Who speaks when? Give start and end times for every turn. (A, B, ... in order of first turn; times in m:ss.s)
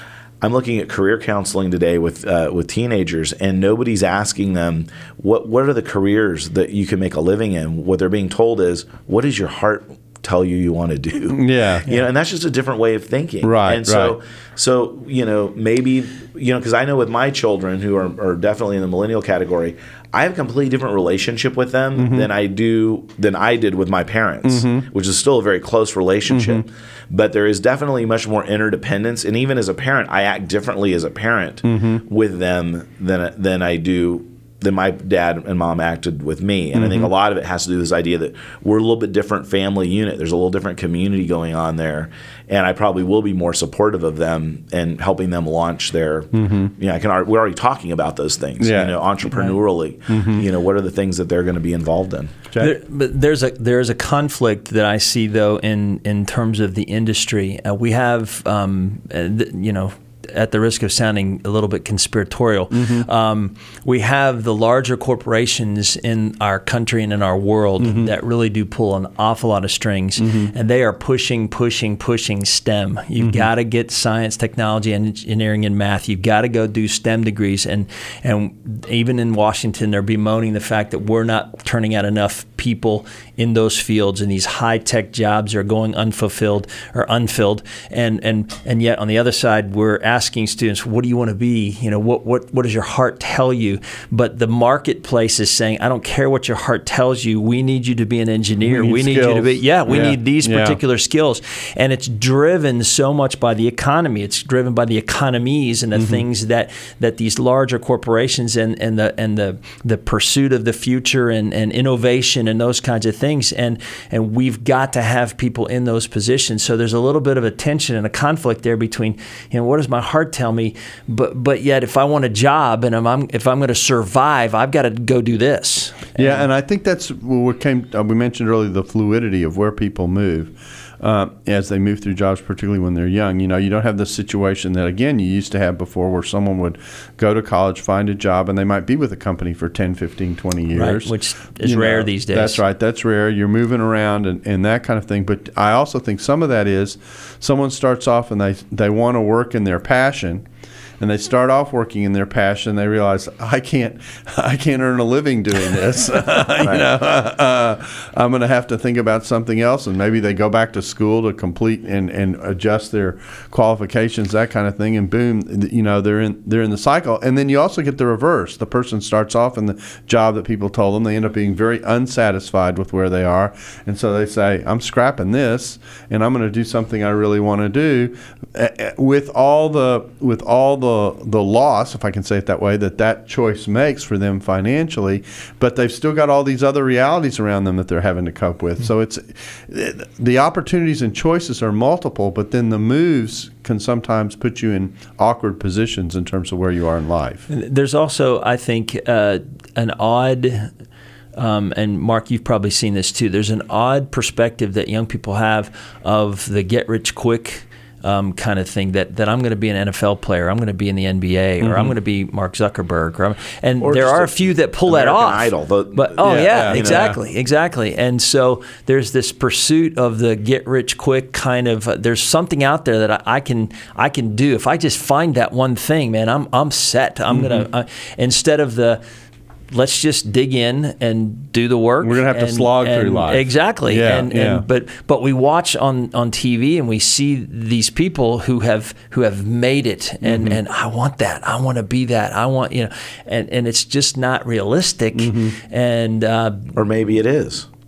0:00.4-0:52.4 A
0:11.3-0:11.9 B
0:13.4-0:14.2 B
0:22.0-0:22.3 B
0:24.5-0:24.9 B
0:26.3-0:26.6 B
0:31.6-0:32.0 B
0:36.7-0:37.1 B
0:46.3-0:46.7 B
0:48.6-0:49.6 B
0:50.1-0:50.4 B
0:52.5-0:52.8 B
0:52.6-2:06.4 C
1:02.7-1:03.1 B
1:07.8-1:08.1 B
1:10.2-1:10.5 B
1:13.2-1:13.5 B
1:38.6-1:40.8 B
1:46.0-1:46.2 B
2:06.2-2:30.5 B
2:20.7-2:22.6 C
2:31.0-3:17.5 B
2:36.6-2:36.9 A
3:17.5-3:20.7 C
3:21.4-3:49.0 C
3:31.6-3:31.9 B
3:33.8-3:37.2 A
3:36.2-3:37.2 B
3:47.3-3:47.7 B
3:49.7-4:06.7 C
3:52.0-3:54.6 B
4:00.2-4:00.6 B
4:05.2-4:05.5 B
4:06.7-4:07.7 A